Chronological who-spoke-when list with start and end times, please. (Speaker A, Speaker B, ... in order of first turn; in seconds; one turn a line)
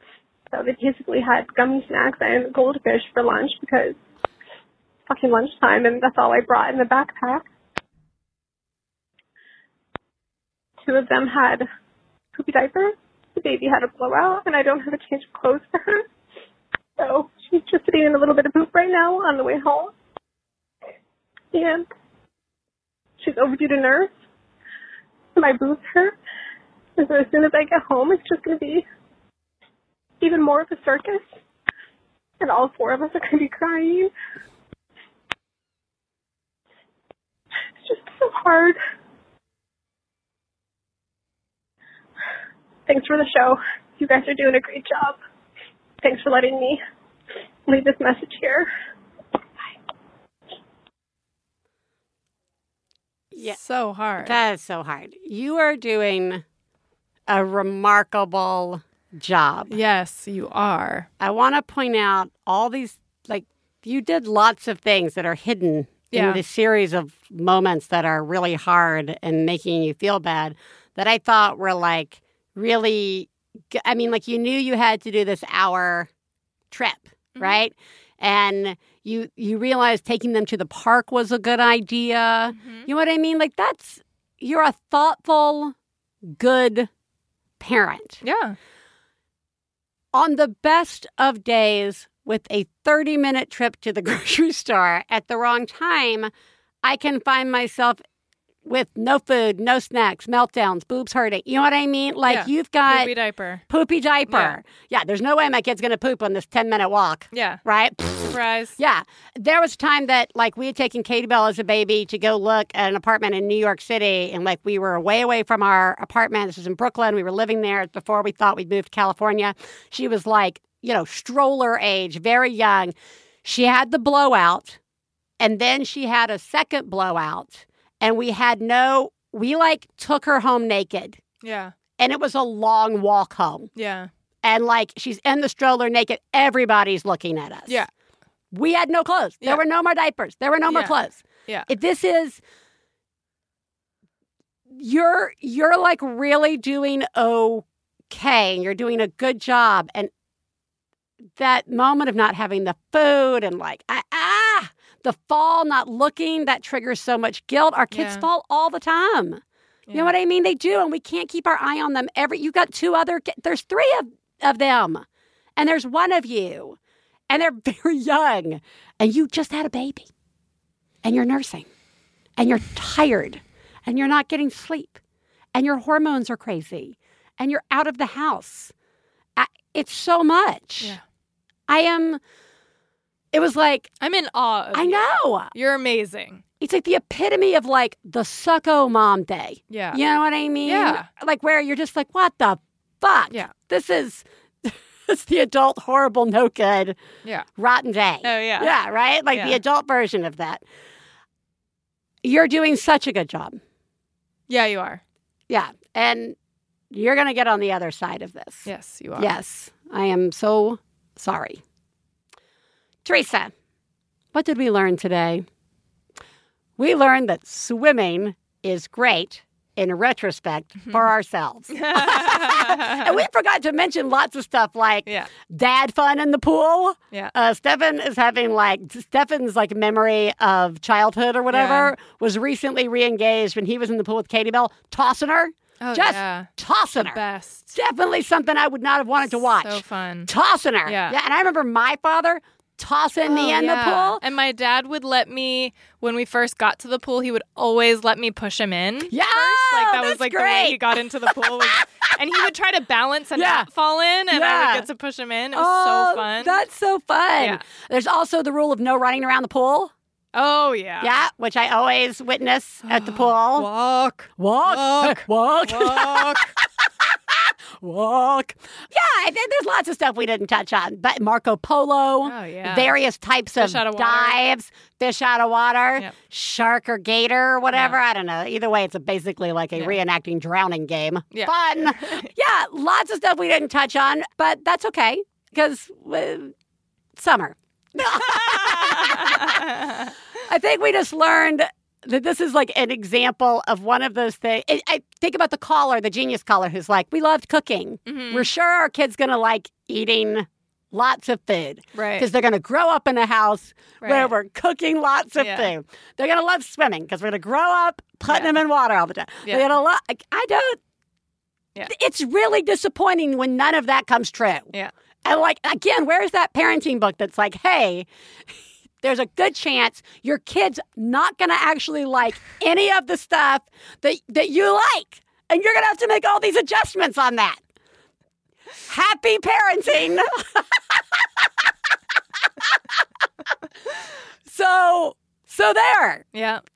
Speaker A: 0.5-4.0
Speaker A: 5.1-7.5
Speaker A: 10.8-11.7
Speaker A: 12.3-16.1
Speaker A: 17.0-19.9
Speaker A: 21.5-21.9
Speaker A: 23.2-24.1
Speaker A: 25.4-26.2
Speaker A: 27.0-28.9
Speaker A: 30.2-31.3
Speaker A: 32.4-34.1
Speaker A: 37.8-38.8
Speaker A: 42.9-45.2
Speaker A: 46.0-46.8
Speaker A: 47.7-48.7
Speaker B: 53.4-54.4
Speaker C: 54.2-56.4
Speaker C: 57.3-59.7
Speaker B: 59.7-61.1
Speaker C: 61.2-76.1
Speaker B: 66.1-66.4
Speaker C: 76.7-85.7
Speaker B: 82.5-82.9
Speaker C: 86.3-86.9
Speaker C: 87.6-88.2
Speaker B: 88.2-88.5
Speaker C: 90.1-96.3
Speaker C: 96.8-98.0
Speaker C: 98.6-103.1
Speaker B: 102.3-103.6
Speaker C: 103.7-124.8
Speaker B: 104.3-104.6
Speaker B: 107.3-107.6
Speaker B: 108.2-108.8
Speaker C: 125.4-131.2
Speaker B: 131.4-131.7
Speaker C: 132.0-133.7
Speaker B: 133.8-134.1
Speaker C: 134.4-137.8
Speaker C: 138.5-142.4
Speaker B: 140.7-140.9
Speaker C: 144.7-150.1
Speaker C: 151.4-159.4
Speaker B: 157.9-158.2
Speaker C: 159.9-165.0
Speaker C: 165.6-166.8
Speaker C: 167.3-170.1
Speaker C: 171.0-171.7
Speaker C: 172.4-175.0
Speaker C: 175.5-178.7
Speaker C: 179.4-181.0
Speaker C: 181.7-182.2
Speaker C: 183.3-183.9
Speaker B: 184.0-186.4
Speaker C: 184.7-185.5
Speaker C: 186.6-197.0
Speaker B: 189.7-190.0
Speaker B: 190.6-191.1
Speaker C: 197.6-200.6
Speaker B: 198.2-198.7
Speaker B: 199.3-199.6
Speaker C: 202.2-203.6
Speaker B: 204.5-205.0
Speaker C: 205.5-206.3
Speaker C: 206.9-211.6
Speaker B: 208.7-209.3
Speaker C: 213.0-213.5
Speaker C: 214.3-215.4
Speaker C: 216.8-237.2
Speaker B: 221.7-223.2
Speaker B: 231.5-231.9
Speaker B: 235.8-237.7
Speaker C: 237.7-244.2
Speaker B: 239.2-240.3
Speaker B: 240.8-241.2
Speaker B: 243.2-256.6
Speaker C: 249.1-251.8
Speaker C: 253.3-253.7
Speaker C: 254.3-254.8
Speaker C: 255.5-259.9
Speaker B: 260.3-261.2
Speaker C: 261.0-263.7
Speaker B: 262.9-266.5
Speaker C: 264.4-266.5
Speaker C: 267.3-286.5
Speaker B: 272.2-272.9
Speaker B: 273.6-274.4
Speaker B: 281.3-282.3
Speaker C: 287.1-289.6
Speaker B: 288.4-290.1
Speaker C: 290.5-310.8
Speaker B: 298.1-298.5
Speaker B: 301.9-302.3
Speaker B: 304.0-304.3
Speaker B: 305.4-305.7
Speaker B: 308.3-308.6
Speaker C: 311.9-314.7
Speaker C: 315.2-318.1
Speaker C: 319.0-327.6
Speaker C: 328.9-330.6
Speaker C: 334.5-336.2
Speaker B: 336.3-336.6